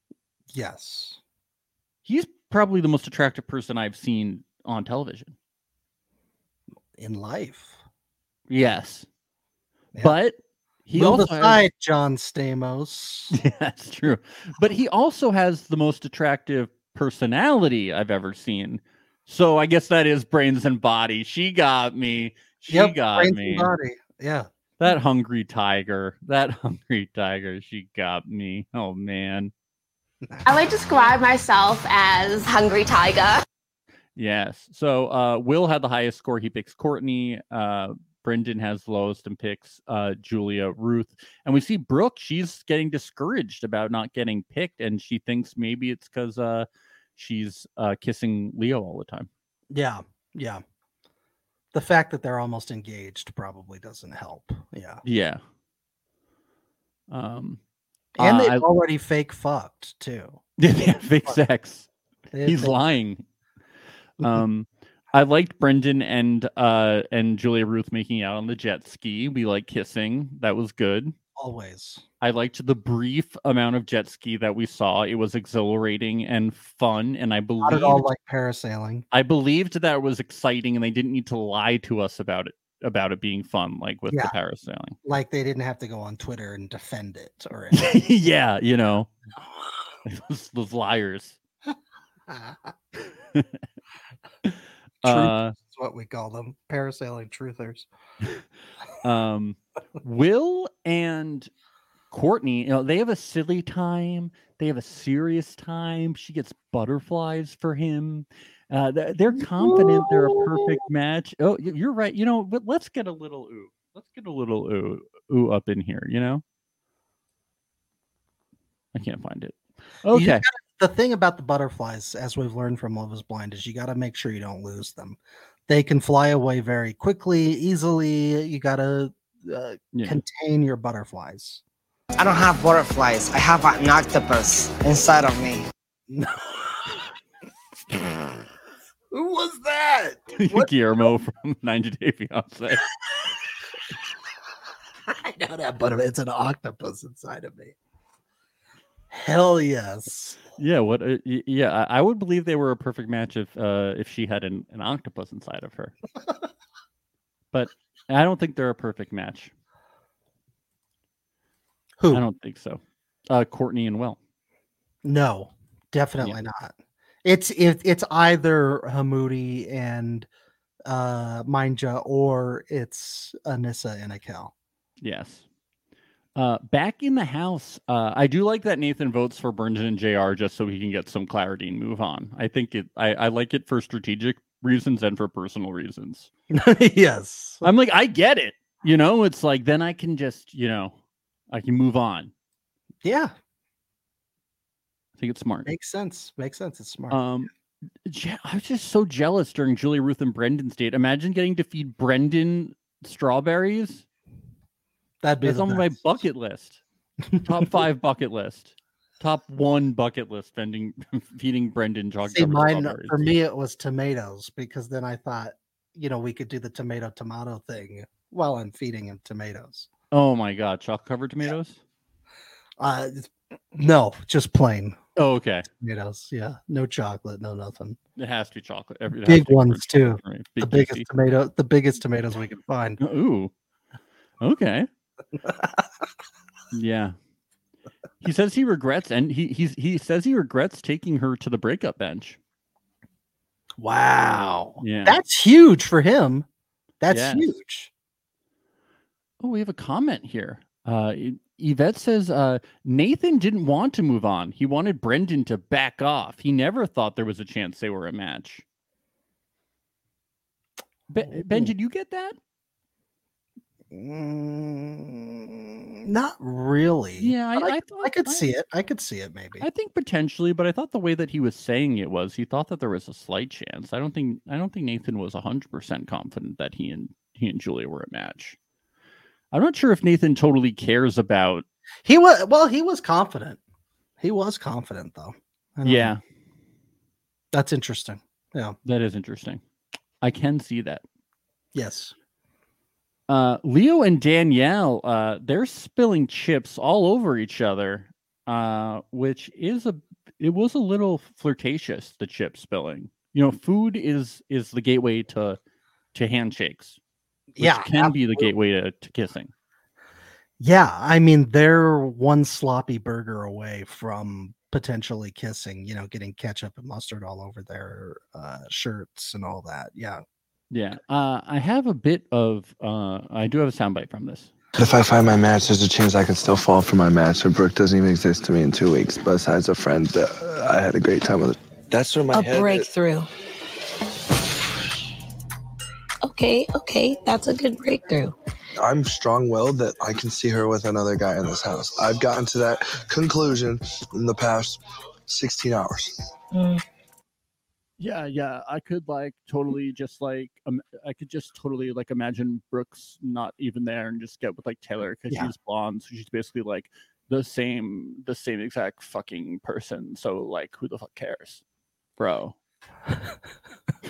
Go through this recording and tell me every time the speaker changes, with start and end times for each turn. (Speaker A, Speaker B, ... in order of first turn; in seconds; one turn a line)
Speaker A: 0.5-1.2
Speaker B: 2.0-5.3
Speaker A: 7.0-7.8
Speaker B: 8.5-9.1
Speaker B: 10.0-11.6
Speaker A: 10.9-13.3
Speaker B: 13.3-23.7
Speaker A: 22.7-24.5
Speaker B: 24.8-29.5
Speaker C: 30.4-33.4
Speaker B: 34.2-49.3
Speaker A: 49.7-50.6
Speaker A: 51.7-55.0
Speaker B: 55.0-55.4
Speaker B: 57.1-57.6
Speaker B: 58.2-58.7
Speaker A: 58.2-60.4
Speaker B: 60.6-61.9
Speaker A: 62.3-62.8
Speaker B: 62.4-63.2
Speaker B: 64.2-71.2
Speaker A: 71.4-72.0
Speaker B: 72.2-78.1
Speaker A: 77.6-79.0
Speaker B: 79.1-85.0
Speaker A: 85.0-87.9
Speaker B: 87.7-89.1
Speaker B: 90.1-91.4
Speaker A: 92.3-92.7
Speaker B: 94.5-95.5
Speaker A: 95.0-97.9
Speaker B: 99.0-101.5
Speaker B: 102.1-116.4
Speaker A: 109.4-110.8
Speaker B: 118.9-120.5
Speaker A: 120.1-131.6
Speaker B: 129.9-130.2
Speaker D: 132.2-135.6
Speaker A: 136.1-137.1
Speaker A: 139.1-140.7
Speaker B: 140.4-142.8
Speaker A: 145.1-147.8
Speaker A: 149.1-150.4
Speaker B: 150.6-155.9
Speaker B: 157.5-159.5
Speaker A: 162.0-162.2
Speaker B: 162.1-164.2
Speaker A: 165.0-170.3
Speaker A: 170.9-174.5
Speaker B: 175.0-175.4
Speaker B: 176.4-186.3
Speaker A: 186.5-187.7
Speaker B: 187.6-191.0
Speaker B: 191.5-192.3
Speaker A: 193.0-193.3
Speaker B: 195.2-195.7
Speaker A: 195.7-197.2
Speaker B: 197.1-197.5
Speaker B: 198.1-204.1
Speaker A: 205.2-206.0
Speaker B: 205.4-206.8
Speaker A: 207.3-207.8
Speaker B: 207.4-213.3
Speaker A: 212.3-219.9
Speaker B: 220.1-221.8
Speaker A: 222.8-225.0
Speaker B: 225.2-225.7
Speaker A: 225.8-228.0
Speaker B: 228.2-231.1
Speaker A: 229.2-233.0
Speaker B: 233.0-233.5
Speaker B: 234.4-234.9
Speaker A: 235.4-235.8
Speaker B: 236.7-237.2
Speaker B: 238.2-242.4
Speaker A: 243.8-246.5
Speaker B: 244.8-245.2
Speaker A: 247.0-247.9
Speaker B: 247.1-247.5
Speaker B: 249.4-258.6
Speaker B: 261.1-262.4
Speaker A: 261.3-261.7
Speaker A: 263.9-269.7
Speaker B: 267.2-268.5
Speaker B: 269.6-278.6
Speaker B: 279.5-281.6
Speaker A: 282.1-283.6
Speaker A: 284.2-286.1
Speaker B: 285.8-286.2
Speaker A: 287.5-288.8
Speaker B: 288.9-289.6
Speaker B: 290.2-291.0
Speaker A: 291.8-292.1
Speaker B: 293.3-305.6
Speaker B: 306.1-307.0
Speaker A: 307.5-308.5
Speaker B: 307.6-309.5
Speaker A: 310.6-320.2
Speaker B: 320.7-324.5
Speaker E: 324.8-332.9
Speaker F: 332.3-333.3
Speaker F: 336.2-338.4
Speaker E: 338.8-346.2
Speaker F: 346.6-346.8
Speaker B: 348.0-361.6
Speaker B: 362.2-362.6